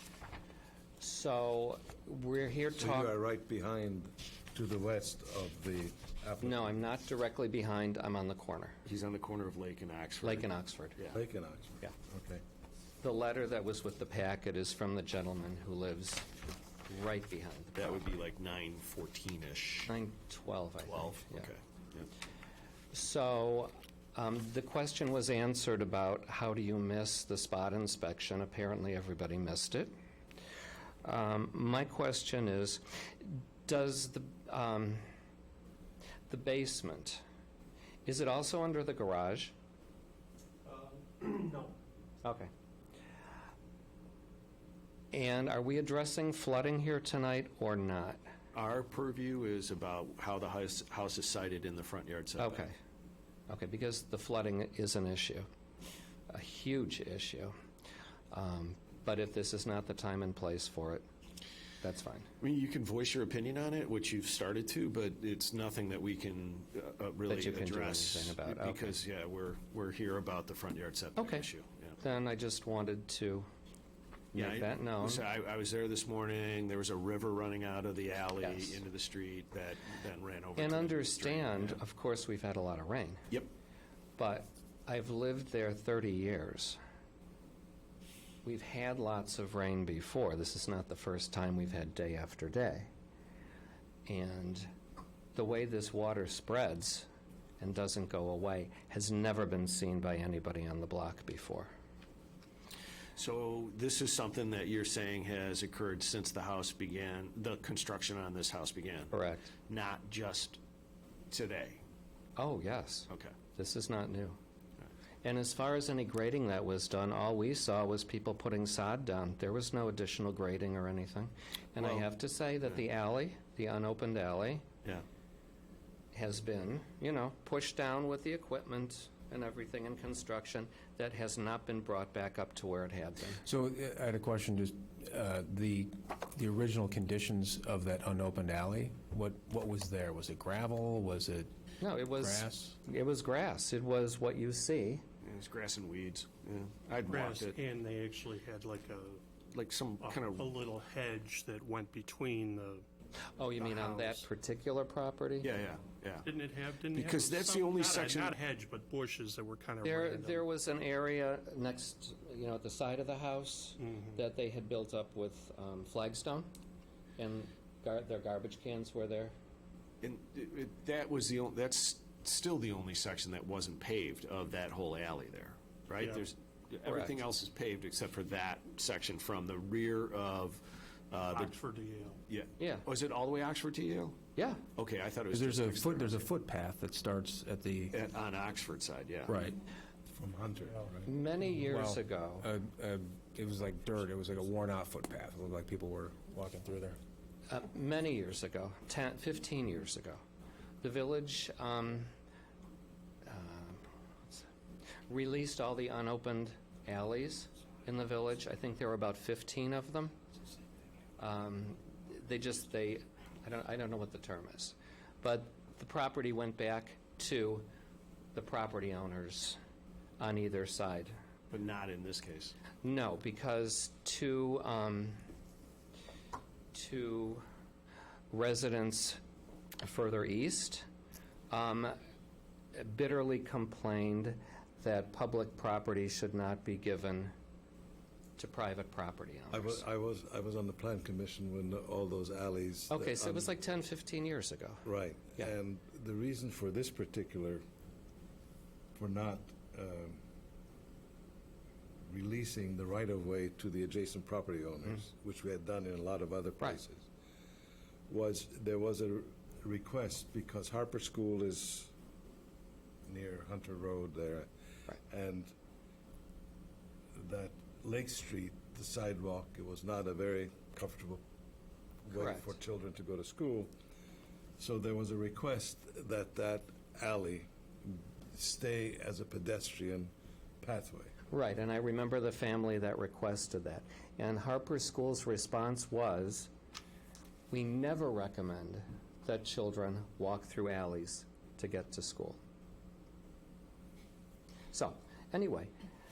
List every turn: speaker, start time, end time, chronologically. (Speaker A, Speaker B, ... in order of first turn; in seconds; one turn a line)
Speaker A: 1.0-3.2
Speaker B: 2.8-6.7
Speaker A: 6.4-8.8
Speaker C: 8.8-11.2
Speaker A: 10.2-11.0
Speaker B: 11.1-12.4
Speaker A: 13.0-16.3
Speaker A: 16.9-17.8
Speaker C: 17.7-19.9
Speaker A: 19.9-21.5
Speaker C: 20.9-22.1
Speaker A: 22.9-29.9
Speaker A: 31.0-35.0
Speaker A: 36.3-37.2
Speaker A: 38.0-39.5
Speaker D: 40.7-41.7
Speaker A: 42.2-42.5
Speaker A: 45.1-48.2
Speaker C: 48.5-52.6
Speaker A: 52.4-52.7
Speaker A: 53.5-55.5
Speaker A: 56.3-57.5
Speaker A: 58.3-61.0
Speaker A: 61.8-62.3
Speaker C: 62.4-72.0
Speaker A: 67.3-69.0
Speaker A: 71.2-71.5
Speaker A: 72.0-73.5
Speaker A: 74.3-75.2
Speaker C: 74.3-81.8
Speaker A: 78.4-78.8
Speaker A: 80.5-83.2
Speaker A: 84.2-86.8
Speaker A: 88.4-92.9
Speaker A: 94.0-94.7
Speaker A: 95.3-97.1
Speaker A: 97.6-101.7
Speaker C: 103.2-109.1
Speaker A: 109.1-109.5
Speaker C: 109.7-110.6
Speaker C: 111.3-111.8
Speaker A: 112.4-114.4
Speaker A: 115.2-124.7
Speaker C: 121.8-122.0
Speaker A: 126.1-133.4
Speaker E: 133.4-141.5
Speaker A: 141.8-145.0
Speaker E: 142.2-142.8
Speaker C: 145.2-147.6
Speaker D: 147.1-149.2
Speaker C: 149.5-150.6
Speaker D: 150.0-152.9
Speaker A: 153.4-155.5
Speaker D: 153.6-154.2
Speaker C: 155.4-156.3
Speaker D: 156.2-160.5
Speaker C: 156.9-158.4
Speaker A: 159.8-166.5
Speaker D: 163.8-164.2
Speaker A: 167.2-169.3
Speaker C: 170.0-181.6
Speaker D: 176.0-176.3
Speaker A: 176.8-177.2
Speaker D: 181.2-182.2
Speaker C: 182.3-184.2
Speaker A: 182.6-182.9
Speaker A: 184.3-184.6
Speaker C: 184.8-186.3
Speaker E: 185.3-188.0
Speaker C: 187.9-189.4
Speaker E: 189.3-189.6
Speaker B: 190.1-191.1
Speaker A: 191.1-192.5
Speaker E: 191.5-197.0
Speaker A: 197.5-200.2
Speaker A: 200.8-202.1
Speaker A: 203.2-204.4
Speaker A: 205.1-210.2
Speaker A: 211.2-217.7
Speaker A: 218.3-219.6
Speaker A: 220.2-221.1
Speaker C: 221.5-222.6
Speaker A: 222.8-225.2
Speaker A: 226.7-227.4
Speaker A: 228.3-229.2
Speaker A: 229.8-230.9
Speaker A: 231.5-232.0
Speaker A: 232.7-237.3
Speaker A: 238.4-239.8
Speaker B: 239.5-243.5
Speaker A: 242.9-244.9
Speaker B: 244.8-247.6
Speaker B: 249.0-250.2
Speaker B: 252.1-257.1
Speaker B: 258.1-261.9
Speaker B: 263.1-264.5
Speaker B: 265.1-265.5
Speaker B: 267.1-271.2
Speaker B: 272.1-273.7
Speaker A: 272.1-272.5
Speaker B: 274.6-280.1
Speaker B: 280.6-281.1
Speaker A: 281.3-286.5
Speaker A: 287.5-292.4
Speaker A: 294.7-295.7